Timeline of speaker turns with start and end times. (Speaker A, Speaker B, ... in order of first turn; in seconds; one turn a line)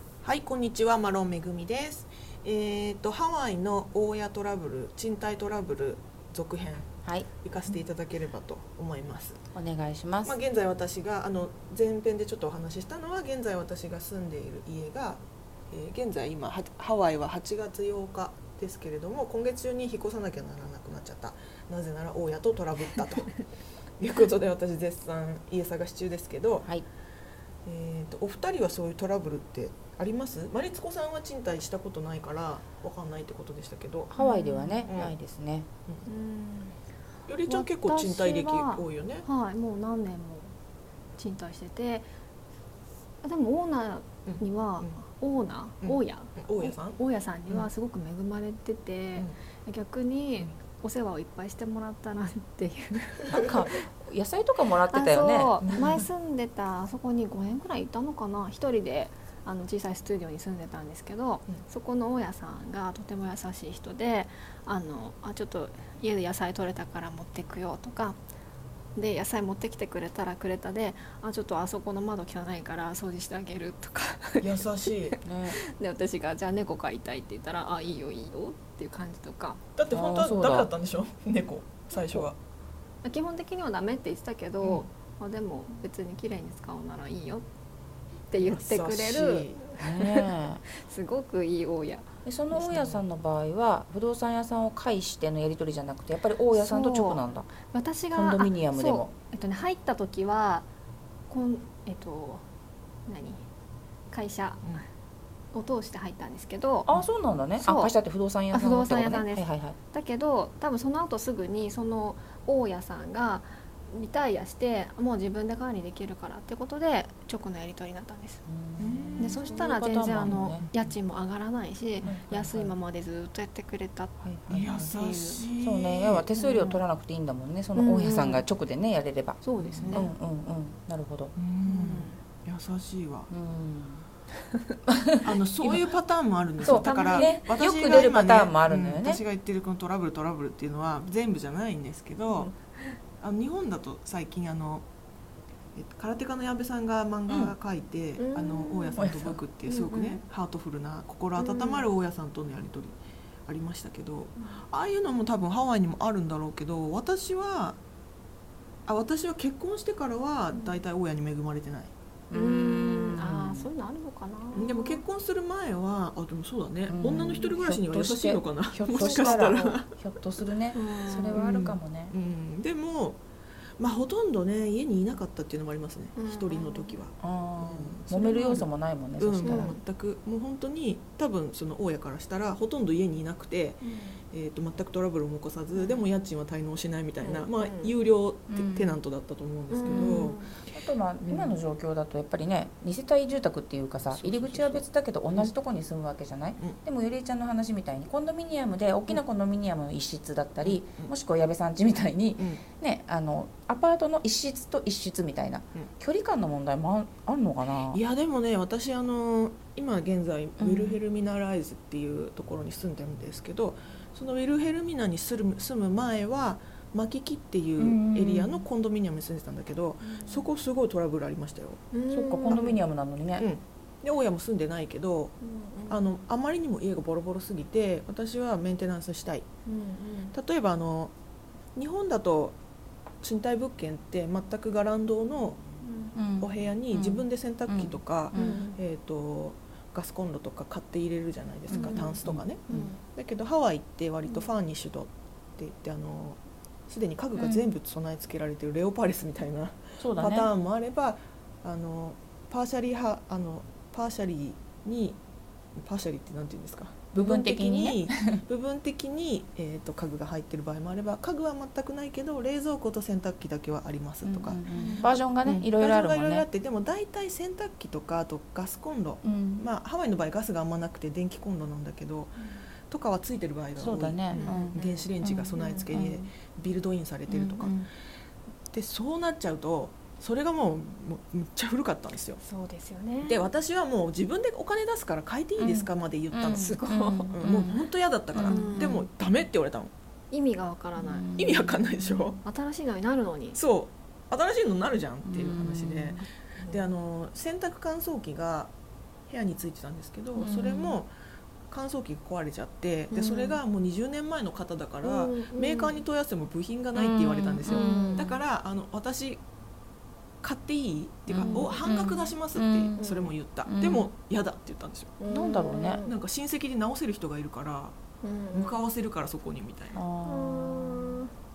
Speaker A: 0.2-9.4
Speaker B: 9.5-10.4
Speaker A: 10.2-23.3
Speaker A: 24.0-26.7
Speaker A: 27.6-34.1
Speaker B: 34.1-35.7
Speaker C: 34.2-34.9
Speaker A: 34.8-35.1
Speaker C: 36.0-36.8
Speaker A: 37.3-39.2
Speaker C: 37.4-40.5
Speaker C: 41.2-42.1
Speaker C: 43.2-53.8
Speaker A: 44.2-44.9
Speaker A: 45.8-47.7
Speaker B: 53.3-55.5
Speaker C: 54.9-68.2
Speaker A: 55.6-56.0
Speaker C: 68.9-79.6
Speaker A: 74.4-75.2
Speaker B: 75.2-75.6
Speaker A: 79.8-82.4
Speaker B: 79.9-80.7
Speaker C: 83.0-87.5
Speaker A: 84.6-84.9
Speaker C: 88.3-92.1
Speaker A: 88.4-89.6
Speaker B: 89.8-90.6
Speaker B: 92.2-97.5
Speaker A: 92.5-93.0
Speaker C: 96.5-100.7
Speaker B: 98.1-99.1
Speaker C: 101.3-102.5
Speaker C: 103.1-103.4
Speaker C: 104.1-104.8
Speaker C: 105.5-106.9
Speaker B: 106.9-109.7
Speaker C: 107.6-107.9
Speaker C: 108.5-118.4
Speaker B: 118.5-120.7
Speaker A: 118.8-119.4
Speaker C: 119.2-124.2
Speaker A: 120.2-120.7
Speaker B: 122.0-122.7
Speaker A: 122.0-122.7
Speaker B: 124.2-131.3
Speaker A: 124.5-126.3
Speaker C: 124.9-125.4
Speaker C: 126.4-126.8
Speaker C: 127.7-128.4
Speaker C: 129.4-130.1
Speaker A: 129.6-130.1
Speaker A: 131.3-133.3
Speaker C: 131.6-132.2
Speaker B: 133.3-134.0
Speaker B: 134.9-135.9
Speaker A: 135.2-142.5
Speaker B: 136.6-139.2
Speaker C: 136.6-137.4
Speaker C: 142.3-143.0
Speaker A: 143.2-144.8
Speaker A: 145.7-157.8
Speaker B: 147.3-147.5
Speaker C: 148.2-149.1
Speaker B: 149.0-149.4
Speaker C: 149.7-150.2
Speaker C: 151.4-151.8
Speaker C: 154.4-154.6
Speaker A: 158.9-161.9
Speaker C: 160.5-160.8
Speaker B: 162.3-163.7
Speaker C: 162.3-165.0
Speaker A: 164.5-169.9
Speaker B: 166.9-172.1
Speaker C: 168.9-169.8
Speaker C: 170.7-171.4
Speaker A: 171.3-173.2
Speaker A: 173.8-190.4
Speaker C: 176.2-177.0
Speaker B: 177.2-179.8
Speaker C: 179.4-179.8
Speaker C: 183.8-184.2
Speaker C: 185.7-186.0
Speaker C: 187.2-187.9
Speaker B: 188.5-189.0
Speaker C: 189.7-190.5
Speaker B: 189.8-208.0
Speaker A: 191.2-191.6
Speaker A: 194.1-195.5
Speaker A: 200.6-201.1
Speaker A: 202.4-202.6
Speaker A: 207.9-221.9
Speaker B: 210.6-211.0
Speaker B: 217.8-218.7
Speaker C: 220.0-220.5
Speaker C: 221.9-222.8
Speaker B: 222.1-223.4
Speaker A: 222.4-222.8
Speaker A: 223.3-225.4
Speaker C: 225.4-226.1
Speaker A: 225.9-229.4
Speaker C: 229.7-230.3
Speaker A: 230.3-231.1
Speaker A: 231.8-232.6
Speaker A: 233.2-235.6
Speaker C: 235.8-236.2
Speaker B: 236.1-238.6
Speaker A: 236.4-255.2
Speaker C: 238.3-238.8
Speaker B: 241.7-242.8
Speaker C: 241.7-242.2
Speaker C: 242.7-243.0
Speaker B: 247.3-247.7
Speaker B: 250.0-250.5
Speaker A: 255.8-272.4
Speaker B: 257.1-258.4
Speaker B: 264.2-266.4
Speaker C: 264.7-265.1
Speaker B: 269.2-269.7
Speaker C: 272.4-272.6
Speaker A: 272.9-277.7
Speaker B: 273.8-276.3
Speaker C: 274.3-275.9
Speaker B: 277.3-277.9
Speaker A: 278.7-282.4
Speaker C: 282.4-283.4
Speaker A: 283.2-289.9
Speaker B: 285.6-288.9
Speaker C: 286.8-287.3
Speaker C: 288.4-289.1
Speaker C: 290.3-291.4
Speaker B: 291.0-292.2
Speaker A: 291.4-292.4
Speaker C: 292.4-293.6
Speaker A: 293.5-298.7
Speaker B: 295.2-296.2
Speaker A: 299.3-301.1
Speaker B: 300.4-301.0
Speaker A: 301.7-309.4
Speaker C: 303.1-303.6
Speaker C: 305.0-306.0
Speaker B: 306.9-308.4
Speaker C: 307.6-308.2
Speaker A: 310.4-315.2
Speaker B: 311.3-313.0
Speaker C: 311.3-311.8
Speaker C: 313.0-313.3
Speaker B: 313.6-314.1
Speaker C: 315.2-316.1
Speaker B: 315.3-316.0
Speaker A: 316.0-317.9
Speaker C: 318.2-318.8
Speaker A: 318.5-320.0
Speaker B: 319.9-321.2
Speaker C: 320.2-321.3